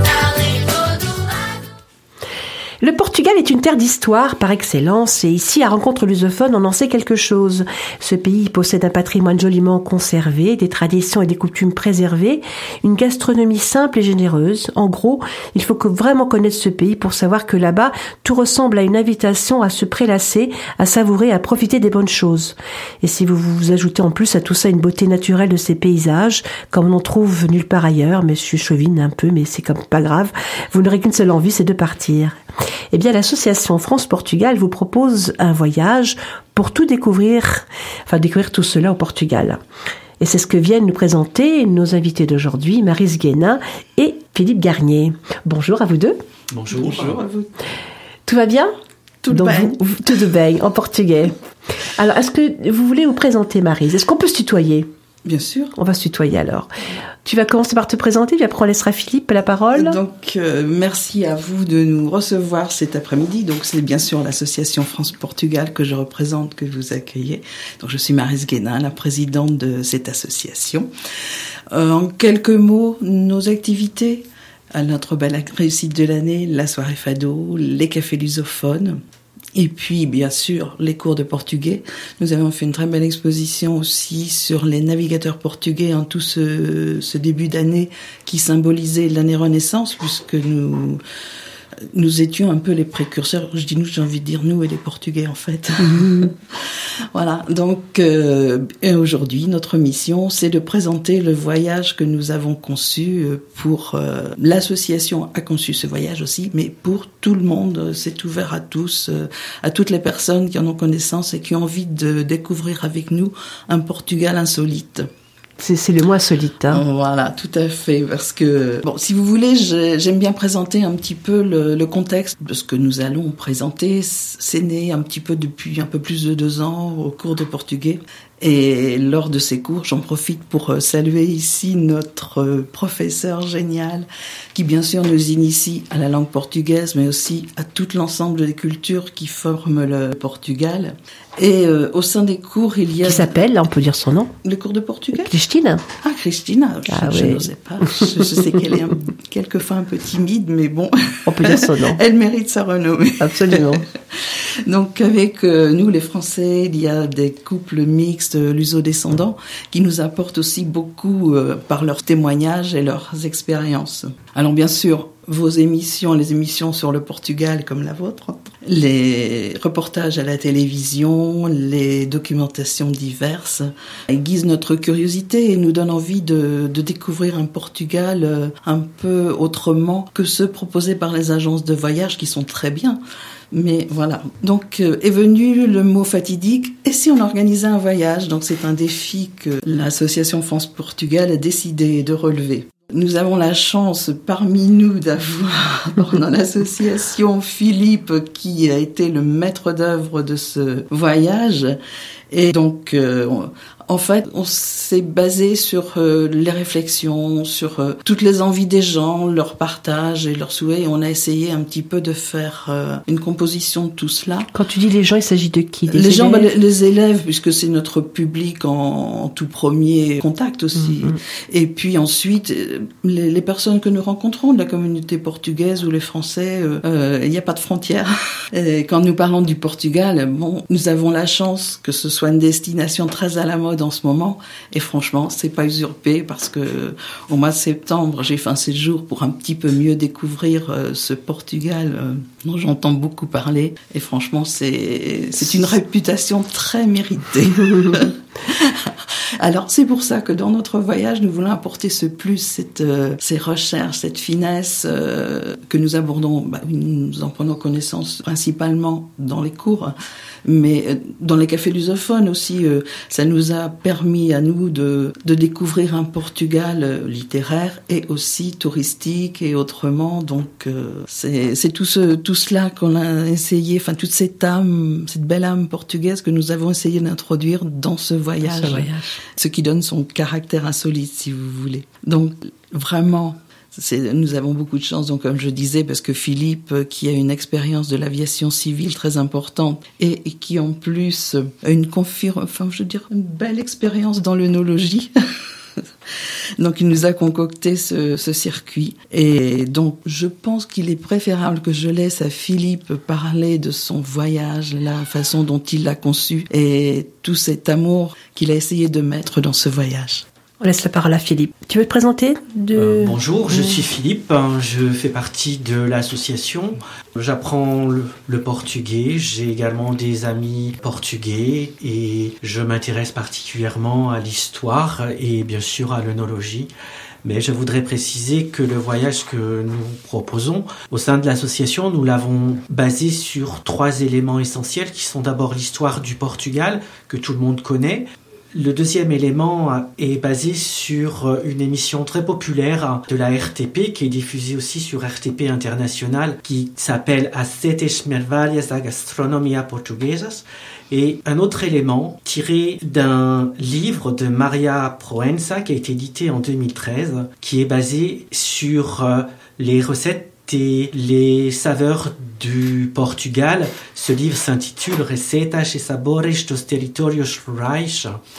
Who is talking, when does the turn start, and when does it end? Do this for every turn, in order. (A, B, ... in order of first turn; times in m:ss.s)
0:02.8-0:32.4 A
0:32.9-0:39.6 A
0:40.2-0:46.2 A
0:46.5-0:47.2 B
0:46.7-0:47.5 C
0:48.2-0:48.7 A
0:49.2-0:49.8 C
0:49.3-0:51.3 A
0:51.9-0:54.9 A
0:55.2-0:55.7 C
0:55.7-0:56.7 A
0:57.2-1:00.0 A
0:59.7-1:10.9 C
1:11.7-1:19.0 C
1:19.5-1:31.0 C
1:31.9-1:36.3 C
1:37.1-1:55.1 C
1:55.6-1:56.8 A
1:56.7-2:23.3 C
2:23.0-2:24.3 A
2:24.4-2:25.3 C
2:25.2-2:25.8 A
2:26.0-2:33.9 C
2:26.9-2:27.4 A
2:31.2-2:32.0 A
2:33.2-2:33.8 A
2:34.7-3:03.0 C
3:03.5-3:21.8 C
3:22.3-3:34.5 C
3:34.5-3:36.5 A
3:35.9-4:08.9 C
3:40.8-3:41.2 A
4:09.4-4:19.9 C
4:20.4-4:55.1 C
4:38.4-4:39.0 A
4:56.6-5:10.2 C
5:10.6-5:13.8 A
5:12.7-5:26.7 B
5:27.2-6:08.2 B